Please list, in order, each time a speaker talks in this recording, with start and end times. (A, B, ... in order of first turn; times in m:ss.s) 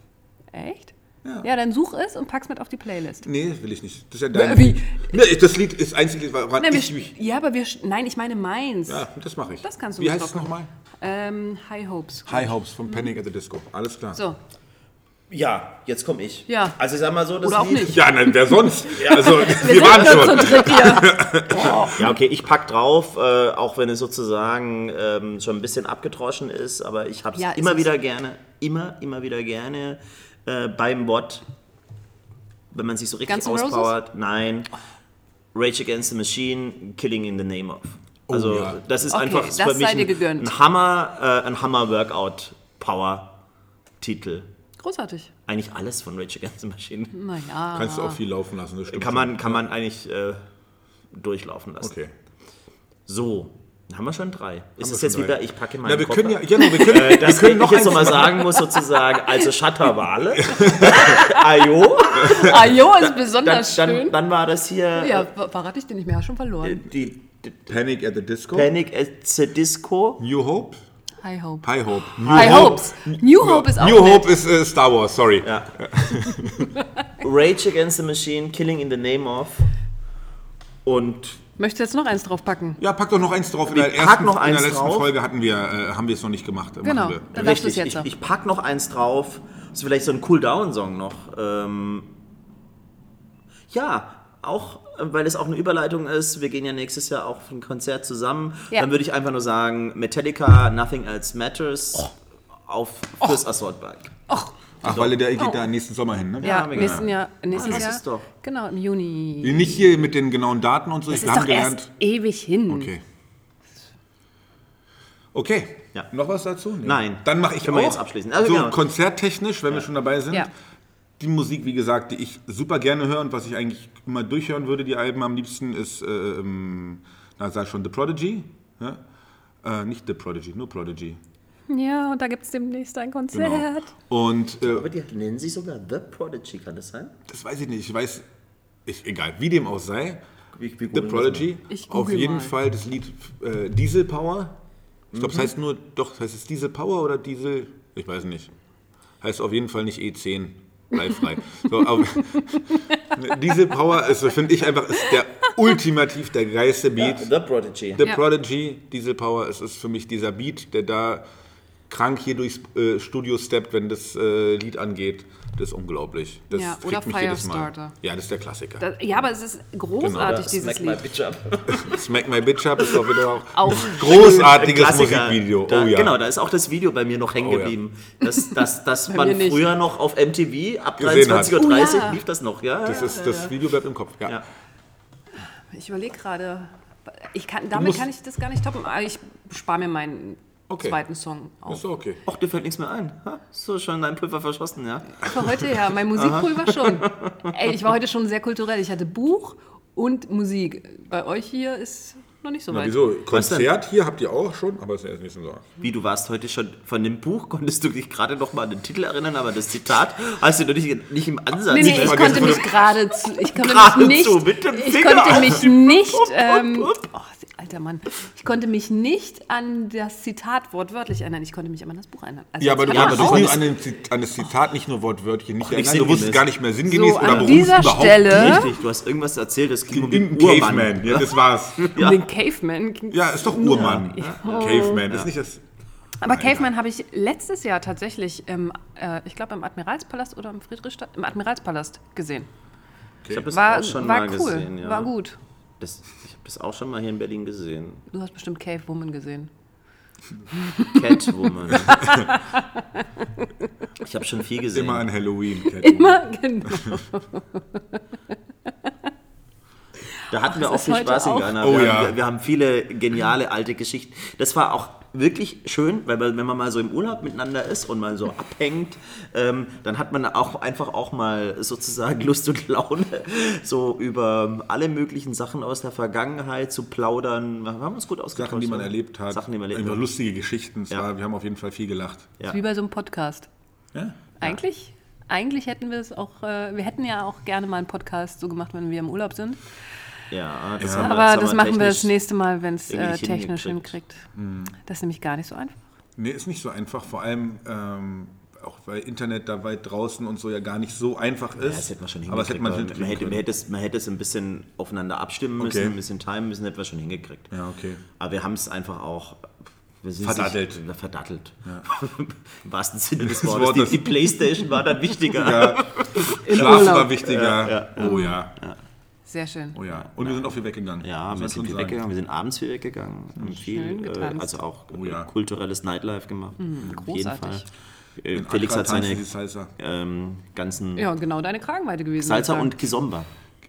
0:00.5-0:03.3 A
0:03.2-0:07.1 B
0:04.3-0:05.1 A
0:06.6-0:09.1 A
0:08.9-0:10.7 B
0:09.6-0:12.9 A
0:12.3-0:14.2 B
0:15.3-0:18.0 C
0:16.5-0:16.8 A
0:17.4-0:18.0 A
0:17.9-0:22.1 B
0:18.9-0:22.0 A
0:19.0-0:20.8 C
0:21.7-0:31.4 C
0:27.4-0:27.9 A
0:32.7-0:34.7 C
0:33.3-0:34.0 A
0:35.5-0:43.4 C
0:38.3-0:38.8 B
0:39.1-0:40.5 A
0:44.0-0:44.5 C
0:44.8-0:45.3 A
0:45.5-0:47.2 C
0:47.1-0:48.2 A
0:47.7-0:49.6 B
0:48.9-0:50.4 C
0:51.1-0:51.9 C
0:51.8-0:52.1 B
0:53.1-1:05.3 C
0:54.8-0:58.5 B
1:00.4-1:01.1 B
1:00.8-1:04.2 A
1:02.3-1:02.6 B
1:05.0-1:06.8 A
1:06.6-1:07.8 C
1:07.7-1:08.7 B
1:08.5-1:10.2 C
1:10.2-1:10.8 B
1:11.2-1:14.3 A
1:11.6-1:16.7 B
1:12.2-1:12.8 C
1:15.4-1:15.8 C
1:17.2-1:19.7 C
1:20.8-1:21.4 C
1:21.6-1:22.8 A
1:22.8-1:27.3 B
1:23.7-1:25.1 C
1:26.8-1:28.1 A
1:27.3-1:32.1 C
1:33.7-1:42.1 C
1:42.7-1:44.2 C
1:44.3-1:44.6 A
1:44.8-1:45.2 C
1:44.8-1:47.8 B
1:46.4-1:48.3 C
1:46.4-1:50.0 A
1:49.4-1:51.9 B
1:51.1-1:52.9 A
1:52.7-1:53.0 B
1:55.3-2:00.5 B
1:56.8-1:58.8 C
2:01.2-2:09.0 B
2:09.6-2:11.2 B
2:11.7-2:13.9 A
2:13.3-2:14.9 B
2:14.6-2:17.1 C
2:17.3-2:18.2 B
2:18.9-2:20.2 B
2:20.6-2:21.5 C
2:20.9-2:24.6 B
2:21.7-2:22.6 A
2:25.1-2:25.5 C
2:25.1-2:28.5 B
2:29.2-2:37.3 B
2:32.7-2:33.2 A
2:37.0-2:38.1 C
2:37.9-2:41.2 B
2:41.9-2:48.8 B
2:46.5-2:48.0 A
2:48.8-2:51.0 A
2:50.0-2:50.4 B
2:50.2-2:52.0 C
2:51.7-2:56.2 B
2:52.8-3:03.5 C
2:53.5-2:54.3 A
2:57.4-2:57.8 B
2:59.1-2:59.7 A
3:01.0-3:01.6 B
3:01.5-3:02.2 A
3:02.8-3:04.4 B
3:02.9-3:03.5 A
3:05.7-3:11.8 A
3:07.7-3:08.0 B
3:10.7-3:11.0 B
3:11.7-3:12.2 B
3:12.3-3:17.6 C
3:15.2-3:23.0 A
3:22.7-3:25.7 B
3:23.3-3:23.7 C
3:25.8-3:32.8 C
3:31.7-3:43.6 A
3:31.8-3:32.8 B
3:33.4-3:37.0 C
3:42.6-3:48.7 B
3:42.9-3:43.7 C
3:45.6-3:46.5 C
3:46.9-3:48.7 A
3:47.2-3:47.5 C
3:48.2-3:52.2 C
3:49.9-3:52.0 B
3:51.9-3:55.1 A
3:53.1-3:55.6 B
3:53.6-3:55.3 C
3:56.2-4:02.5 A
3:56.3-3:56.7 B
4:03.3-4:05.1 C
4:03.5-4:05.4 A
4:05.8-4:08.0 C
4:08.1-4:09.5 A
4:10.5-4:13.5 A
4:10.9-4:12.1 C
4:14.0-4:15.1 C
4:14.7-4:17.0 B
4:15.8-4:18.0 A
4:20.2-4:21.6 A
4:20.3-4:40.0 C
4:21.6-4:22.2 B
4:38.4-4:42.3 B
4:42.5-4:43.5 A
4:44.4-4:49.6 A
4:50.3-4:52.2 C
4:50.8-4:51.1 B
4:50.8-4:54.2 A
4:52.9-4:53.9 C
4:54.4-4:54.7 B
4:54.8-4:55.8 A
4:56.2-5:03.4 B
5:01.6-5:07.5 C
5:05.6-5:06.0 B
5:07.5-5:08.0 B
5:08.2-5:18.8 C
5:10.2-5:10.8 B
5:13.2-5:14.4 B
5:15.3-5:18.6 B
5:16.3-5:17.2 A
5:18.0-5:18.4 A
5:19.3-5:19.8 A
5:19.8-5:22.0 B
5:19.9-5:20.4 C
5:21.0-5:27.7 C
5:23.5-5:24.6 A
5:24.9-5:25.3 B
5:26.6-5:27.7 A
5:28.2-5:31.1 C
5:28.3-5:29.7 B
5:31.0-5:32.8 A
5:32.2-5:33.3 C